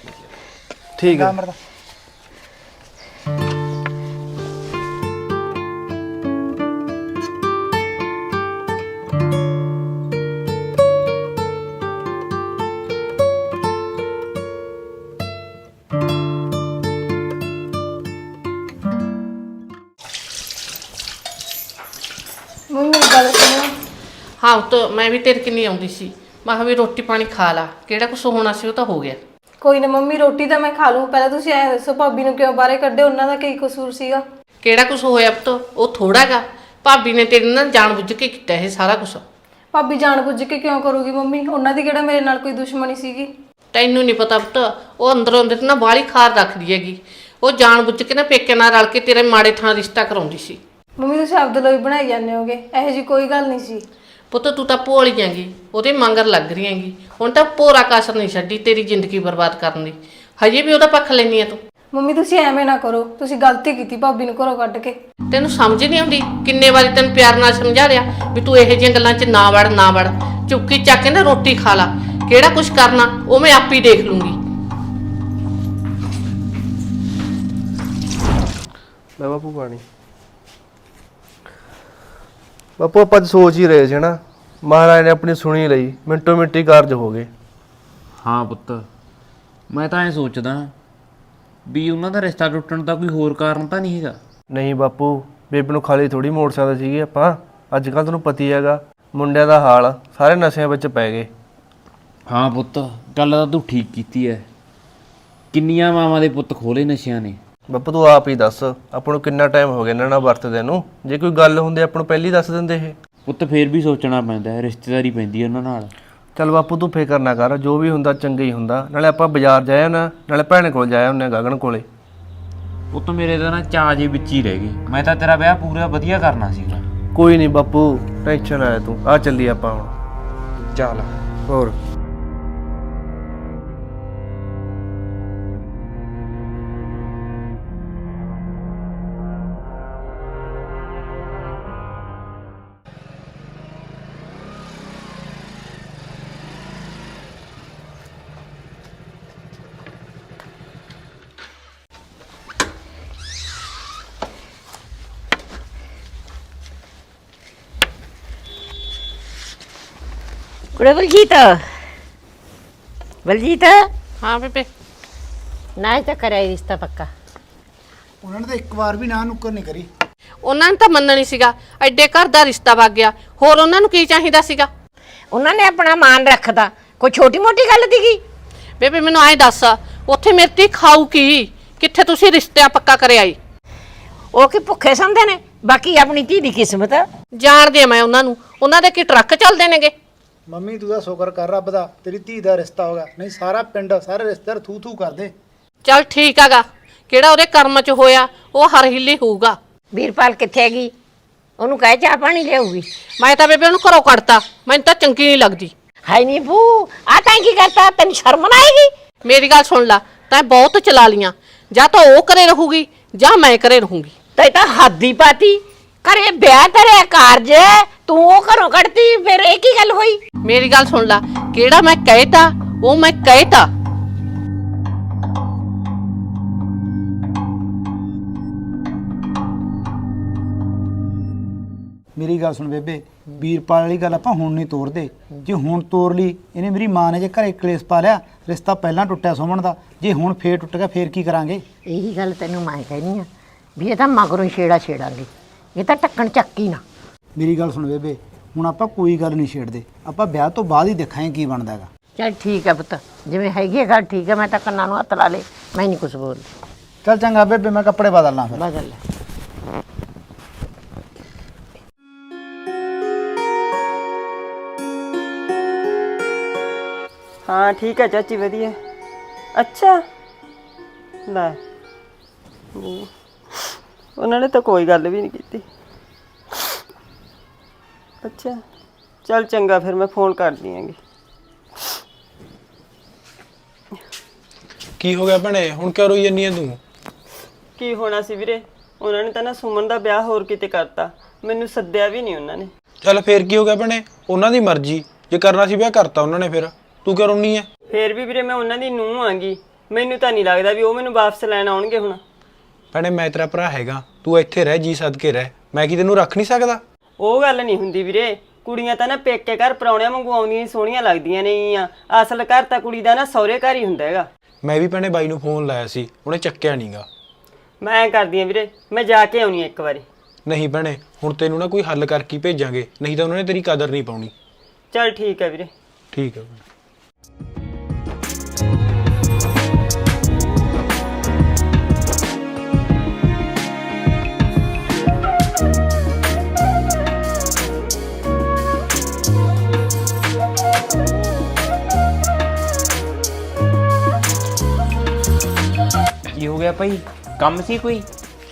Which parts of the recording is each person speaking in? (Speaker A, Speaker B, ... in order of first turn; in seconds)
Speaker A: 1.0-1.4, 79.2-79.8, 82.8-87.3, 94.5-101.3, 107.7-113.0, 116.4-121.9, 127.1-129.9, 131.5-131.8
Speaker B: 1.0-1.6, 168.2-169.9, 190.5-195.3, 232.2-241.6, 247.4-251.9, 257.1-258.6
Speaker C: 22.7-23.7, 29.6-34.2, 39.7-43.3, 51.0-53.8, 61.9-65.0
Speaker D: 24.4-29.2, 34.6-39.2, 43.7-50.6, 54.3-61.6, 65.3-74.4, 164.2-164.7, 170.4-174.7, 178.8-183.4, 187.4-189.9, 195.8-199.6, 203.2-205.7, 209.2-214.1, 220.4-223.7
Speaker E: 88.2-88.9, 89.7-90.7, 91.7-94.2, 102.3-104.5, 105.5-107.4, 113.3-115.9, 122.9-126.8, 130.6-131.1, 346.3-348.1
Speaker F: 160.8-161.7, 163.2-163.9, 165.8-167.1, 175.3-178.2, 184.3-187.1, 199.9-200.9, 201.6-202.9, 206.1-208.9, 214.4-220.2, 241.9-246.8, 252.2-256.5, 258.6-259.0
Speaker G: 267.5-268.8, 269.6-270.0, 271.3-271.6, 272.8-273.1, 274.2-275.6, 278.2-278.6, 279.3-281.0, 287.8-292.7, 297.9-302.2, 307.2-314.3, 317.8-320.1, 324.9-325.7
Speaker H: 285.0-286.8, 293.0-297.7, 302.9-306.8, 314.6-317.1, 320.5-324.3, 326.1-326.6